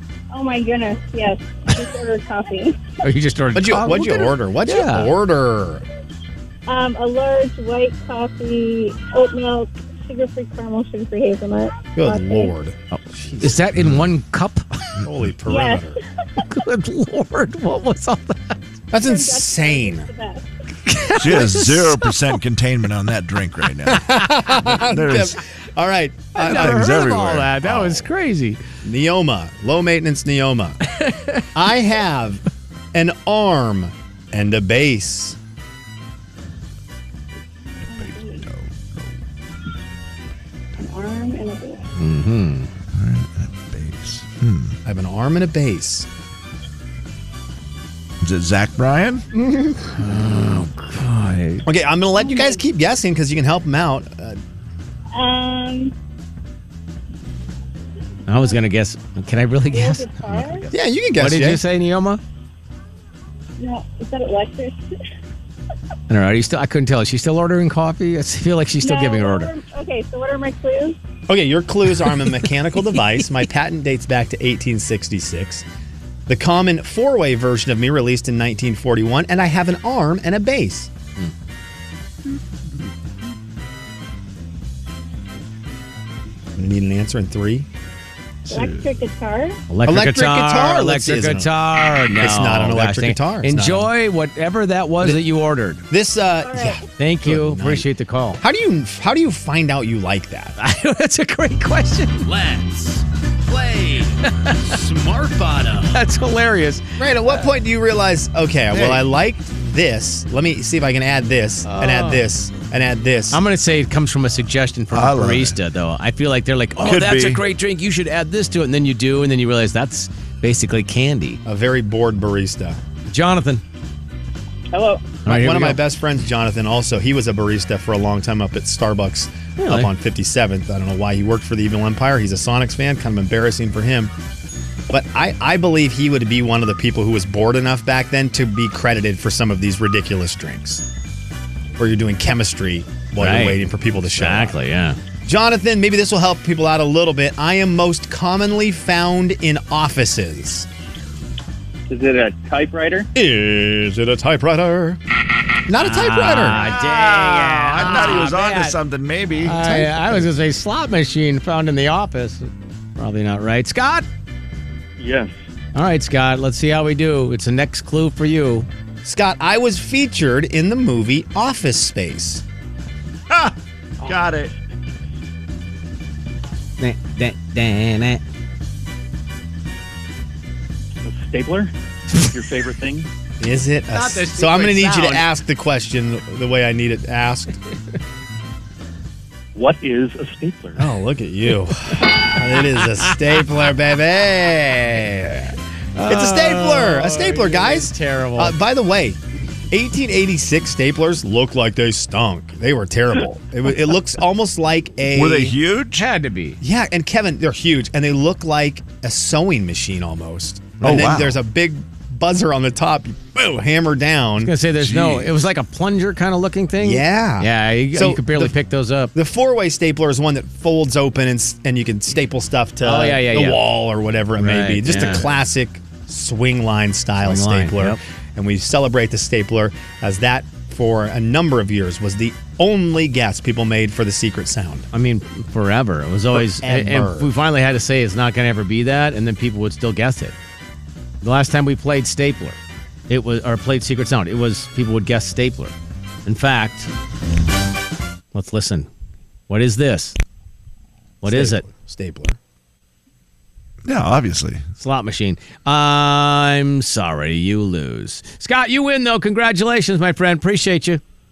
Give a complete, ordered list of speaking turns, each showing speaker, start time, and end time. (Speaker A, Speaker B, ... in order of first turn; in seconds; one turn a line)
Speaker A: 0.3-2.8
Speaker B: 3.0-5.1
Speaker C: 3.5-5.8
Speaker A: 6.7-12.5
Speaker C: 11.9-13.6
Speaker B: 13.4-15.0
Speaker D: 13.8-14.1
Speaker C: 15.0-16.0
Speaker A: 15.5-15.9
Speaker B: 16.4-18.6
Speaker C: 18.9-20.1
Speaker A: 19.0-20.5
Speaker B: 20.9-22.1
Speaker D: 21.2-25.4
Speaker C: 23.9-26.9
Speaker B: 26.4-28.6
Speaker D: 26.4-28.1
Speaker C: 28.8-30.8
Speaker B: 30.9-31.5
Speaker C: 31.5-35.4
Speaker A: 37.9-38.4
Speaker D: 38.0-39.1
Speaker A: 40.8-41.9
Speaker B: 42.0-42.7
Speaker D: 42.9-44.8
Speaker C: 44.9-46.1
Speaker D: 48.2-49.3
Speaker C: 49.3-50.0
Speaker B: 50.0-51.6
Speaker C: 51.6-54.4
Speaker A: 52.2-52.5
Speaker A: 55.1-55.9
Speaker B: 58.3-62.2
Speaker A: 59.7-60.7
Speaker C: 60.7-61.6
Speaker A: 63.6-64.8
Speaker B: 66.1-69.5
Speaker A: 68.8-71.0
Speaker C: 71.3-75.7
Speaker C: 76.3-80.9
Speaker C: 86.6-87.7
Speaker A: 88.5-89.6
Speaker D: 88.5-88.8
Speaker B: 89.7-95.8
Speaker C: 89.8-91.5
Speaker C: 92.2-93.9
Speaker C: 95.9-97.9
Speaker A: 96.4-96.8
Speaker B: 97.0-98.4
Speaker C: 98.4-100.6
Speaker B: 100.6-102.3
Speaker C: 102.2-106.0
Speaker B: 104.2-104.8
Speaker B: 105.9-107.5
Speaker C: 107.0-113.4
Speaker D: 108.7-109.0
Speaker B: 111.7-112.3
Speaker B: 113.3-121.4
Speaker D: 114.9-115.6
Speaker D: 116.8-117.4
Speaker C: 121.4-122.8
Speaker B: 123.1-123.6
Speaker A: 124.7-125.0
Speaker B: 125.2-125.8
Speaker C: 125.3-134.1
Speaker B: 129.6-129.9
Speaker C: 134.9-140.8
Speaker C: 141.8-144.6
Speaker B: 143.2-143.6
Speaker B: 144.1-145.0
Speaker C: 145.2-150.7
Speaker E: 151.9-153.1
Speaker C: 153.2-155.0
Speaker C: 155.7-156.7
Speaker B: 155.8-158.8
Speaker D: 156.5-159.6
Speaker B: 159.4-164.1
Speaker C: 159.5-160.3
Speaker E: 165.0-165.3
Speaker B: 165.7-168.7
Speaker C: 169.0-172.4
Speaker D: 173.3-174.5
Speaker B: 176.8-178.2
Speaker E: 181.0-183.1
Speaker C: 183.4-187.6
Speaker B: 183.9-185.3
Speaker E: 189.6-190.8
Speaker C: 190.8-199.2
Speaker B: 195.9-198.6
Speaker C: 199.7-205.6
Speaker D: 205.1-206.1
Speaker B: 205.9-206.6
Speaker C: 206.6-214.5
Speaker D: 210.8-211.4
Speaker B: 214.4-219.1
Speaker D: 214.8-215.3
Speaker C: 216.8-218.5
Speaker C: 219.1-234.9
Speaker B: 222.8-223.6
Speaker B: 224.4-225.2
Speaker B: 227.2-228.0
Speaker B: 234.9-240.3
Speaker C: 236.3-237.3
Speaker B: 241.2-242.6
Speaker B: 243.1-245.7
Speaker B: 246.2-246.9
Speaker B: 248.3-248.9
Speaker B: 249.5-250.2
Speaker B: 251.2-251.7
Speaker C: 251.2-252.4
Speaker D: 253.8-254.7
Speaker B: 254.8-261.0